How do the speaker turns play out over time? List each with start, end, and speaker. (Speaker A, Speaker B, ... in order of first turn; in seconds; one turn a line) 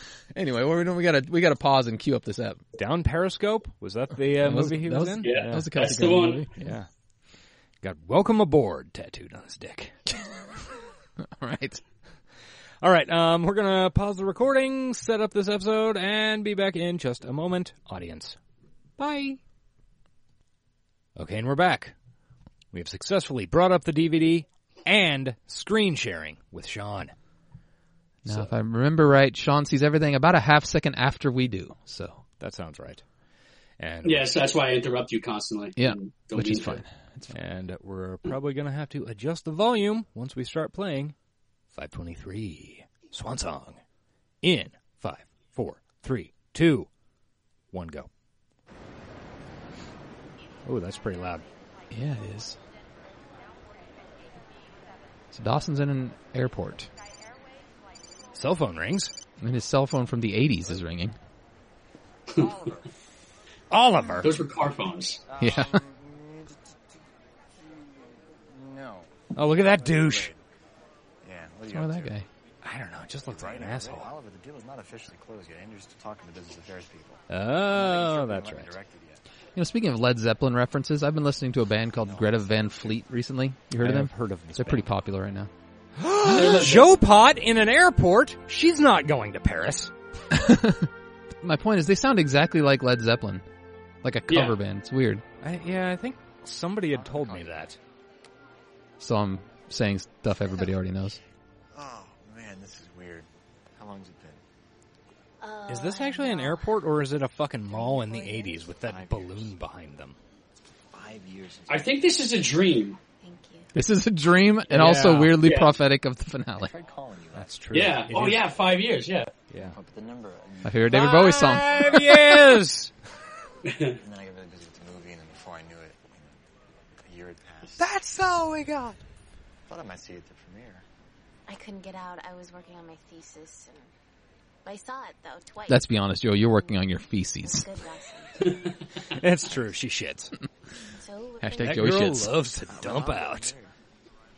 Speaker A: 0.3-2.6
Speaker B: 2.8-5.8
Speaker A: 4.3-6.7
Speaker C: 5.2-6.5
Speaker B: 6.6-6.9
Speaker B: 7.8-9.9
Speaker A: 11.2-11.8
Speaker B: 12.8-18.4
Speaker B: 19.0-19.4
Speaker B: 21.2-21.9
Speaker B: 22.7-27.1
Speaker B: 28.2-28.5
Speaker A: 28.2-32.2
Speaker B: 32.4-33.0
Speaker B: 33.8-34.3
Speaker C: 34.0-36.8
Speaker A: 35.8-37.4
Speaker B: 37.3-41.1
Speaker B: 41.7-43.8
Speaker B: 44.4-46.9
Speaker B: 47.7-48.1
Speaker B: 50.6-51.5
Speaker A: 51.9-52.6
Speaker A: 55.3-56.9
Speaker B: 58.3-59.1
Speaker A: 59.4-61.2
Speaker D: 62.4-62.9
Speaker B: 63.7-64.4
Speaker C: 64.2-65.2
Speaker D: 65.3-66.6
Speaker A: 65.4-65.8
Speaker D: 67.6-70.4
Speaker B: 69.3-70.3
Speaker D: 71.2-72.2
Speaker A: 71.7-72.3
Speaker B: 72.6-74.1
Speaker D: 73.3-79.2
Speaker B: 77.3-78.8
Speaker A: 79.6-85.5
Speaker D: 82.0-83.0
Speaker B: 83.8-84.8
Speaker B: 86.0-89.9
Speaker C: 86.2-87.0
Speaker A: 90.3-90.9
Speaker A: 91.4-93.5
Speaker A: 94.0-95.2
Speaker C: 94.3-94.6
Speaker B: 95.4-97.8
Speaker D: 96.9-97.8
Speaker A: 99.0-101.2
Speaker D: 101.7-104.4
Speaker E: 105.4-106.8
Speaker B: 105.7-110.2
Speaker E: 107.7-108.7
Speaker D: 108.8-109.5
Speaker D: 110.9-112.0
Speaker C: 111.7-113.0
Speaker E: 113.2-113.7
Speaker A: 113.7-116.7
Speaker B: 114.7-115.5
Speaker C: 115.4-115.8
Speaker D: 116.6-118.4
Speaker B: 117.3-118.5
Speaker C: 117.7-119.3
Speaker B: 119.5-119.8
Speaker D: 119.5-120.9
Speaker A: 120.7-122.3
Speaker B: 120.9-122.9
Speaker C: 123.7-124.0
Speaker D: 123.9-126.4
Speaker D: 127.0-128.0
Speaker B: 127.8-129.0
Speaker D: 129.7-130.8
Speaker E: 131.5-133.9
Speaker E: 134.7-136.8
Speaker A: 135.7-137.7
Speaker E: 137.4-138.6
Speaker C: 138.4-138.8
Speaker B: 139.1-140.3
Speaker E: 141.0-142.0
Speaker A: 141.4-142.3
Speaker B: 141.6-143.6
Speaker D: 142.6-143.7